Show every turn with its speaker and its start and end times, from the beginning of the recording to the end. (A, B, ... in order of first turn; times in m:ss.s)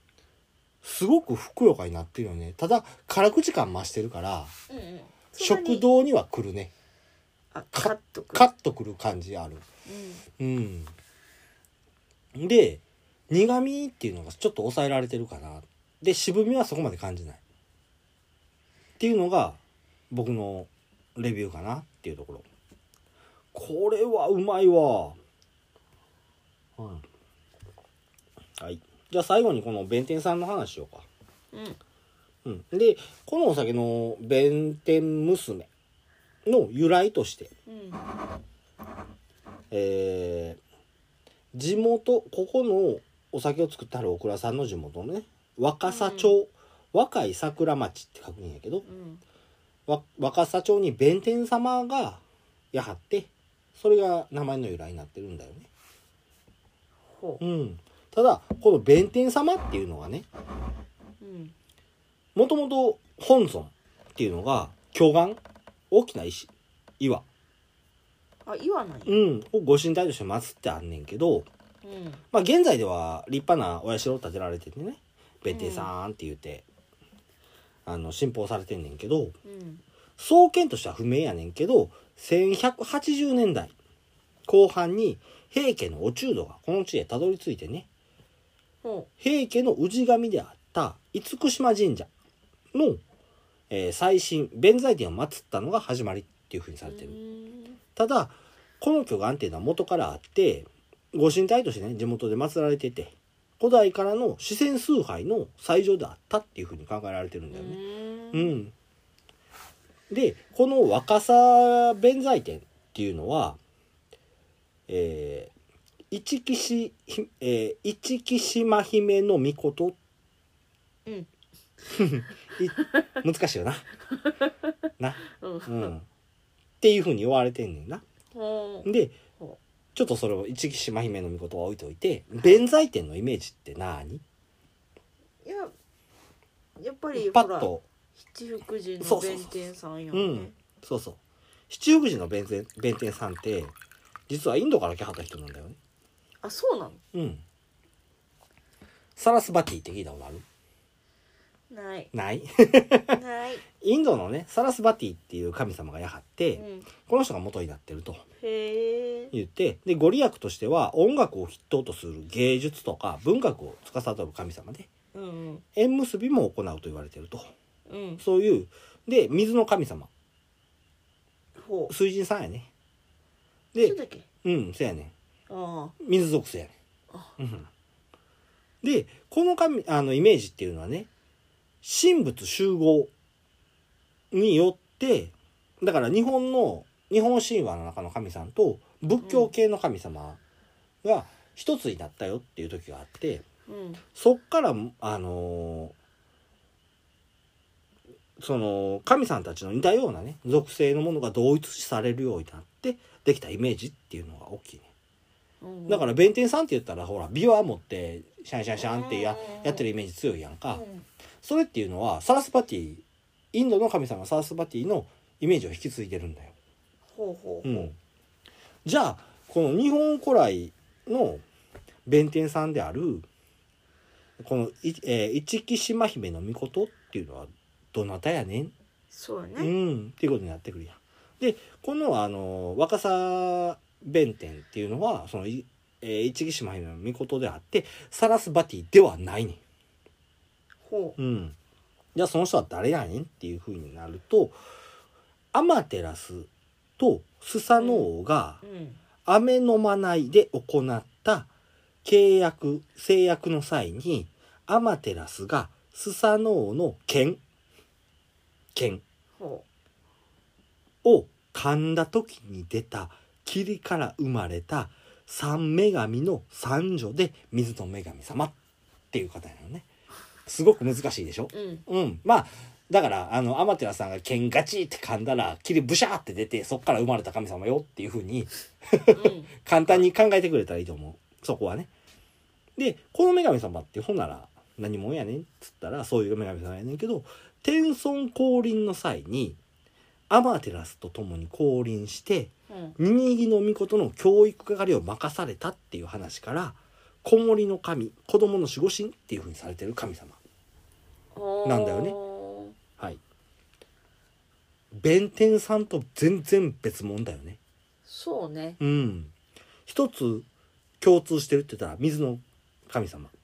0:00.8-0:04.5 A
0:04.7-0:05.8 B
0:05.4-0:06.7 A
0:07.5-0:08.5 B
0:07.7-0:09.7 A
0:09.9-0:10.2 B
0:10.4-0:10.9 A
0:12.4-0:17.4 A
0:19.0-0:19.6 A
0:20.1-0:22.4 A
0:23.5-0:25.2 A
0:26.8-0:27.0 A
0:28.6-0:31.1 A
0:31.5-0:31.8 B
0:32.4-0:35.7 A
0:36.4-0:37.5 A
0:37.7-0:38.0 B
0:39.7-0:40.6 A
0:41.5-0:48.9 A
0:45.9-0:46.4 B
0:48.9-0:49.2 B
0:49.9-0:55.7 A
0:57.1-0:57.4 B
0:57.4-1:00.3 A
1:01.2-1:01.5 B
1:02.4-1:05.4 A
1:05.9-1:07.3 A
1:08.4-1:09.2 B
1:09.1-1:11.5 A
1:11.8-1:12.2 B
1:12.3-1:16.6 A
1:15.5-1:15.9 B
1:17.9-1:19.4 A
1:19.4-1:19.8 B
1:20.2-1:23.7 A
1:24.4-1:27.9 A
1:28.8-1:29.1 B
1:29.2-1:32.1 A
1:32.7-1:33.0 A
1:33.7-1:37.2 A
1:36.8-1:37.8 B
1:38.0-1:47.8 A
1:47.5-1:48.5 B
1:48.3-1:48.7 A
1:50.1-1:53.6 A
1:54.9-1:55.5 A
1:56.1-2:00.0 A
2:01.9-2:03.9 A
2:02.7-2:03.2 B
2:04.1-2:05.9 B
2:05.0-2:06.1 A
2:06.8-2:08.0 A
2:08.3-2:08.9 B
2:08.8-2:09.1 A
2:10.0-2:14.2 A
2:15.4-2:15.7 B
2:16.8-2:20.5 B
2:17.1-2:17.8 A
2:19.0-2:19.6 A
2:20.1-2:21.2 A
2:21.7-2:23.7 A
2:24.3-2:25.8 A
2:26.4-2:27.0 B
2:27.1-2:27.4 A
2:29.2-2:30.4 A
2:31.7-2:32.1 B
2:32.1-2:33.2 A
2:33.1-2:33.6 B
2:33.8-2:38.2 A
2:36.6-2:36.9 B
2:38.4-2:39.3 B
2:39.3-2:44.9 A
2:45.1-2:45.6 B
2:45.8-2:47.5 A
2:47.9-2:48.2 B
2:48.2-2:50.1 A
2:51.6-2:51.9 B
2:51.9-2:52.7 A
2:53.7-2:55.1 A
2:53.8-2:54.3 B
2:55.5-2:56.0 B
2:56.0-2:56.7 A
2:57.4-2:57.7 A
2:58.8-3:01.1 A
3:01.8-3:03.1 A
3:04.3-3:10.4 A
3:09.2-3:09.5 B
3:11.0-3:13.4 A
3:13.7-3:14.0 B
3:14.1-3:15.9 A
3:18.4-3:24.8 A
3:25.6-3:26.1 B
3:25.9-3:30.8 A
3:28.8-3:29.8 B
3:30.7-3:31.0 B
3:31.4-3:36.6 A
3:37.1-3:37.9 B
3:37.6-3:38.0 A
3:38.8-3:41.4 A
3:42.1-3:43.3 A
3:44.4-3:48.7 A
3:49.1-3:49.7 B
3:49.6-3:59.6 A
4:00.8-4:01.2 B
4:01.2-4:01.6 A
4:02.1-4:04.6 A
4:05.5-4:08.6 A
4:07.8-4:08.1 B
4:08.6-4:09.0 B
4:09.2-4:11.5 A
4:12.0-4:17.4 A
4:18.8-4:19.0 A
4:19.4-4:19.6 B
4:21.0-4:28.5 A
4:29.1-4:29.9 A
4:30.4-4:41.9 A
4:31.5-4:31.8 B
4:39.1-4:40.0 B
4:42.8-4:49.6 A
4:50.3-5:00.4 A
4:52.7-4:53.0 B
5:01.3-5:02.8 B
5:01.6-5:02.2 A
5:04.9-5:07.6 A
5:08.0-5:08.8 B
5:08.8-5:09.3 A
5:09.9-5:10.4 A
5:11.0-5:13.3 A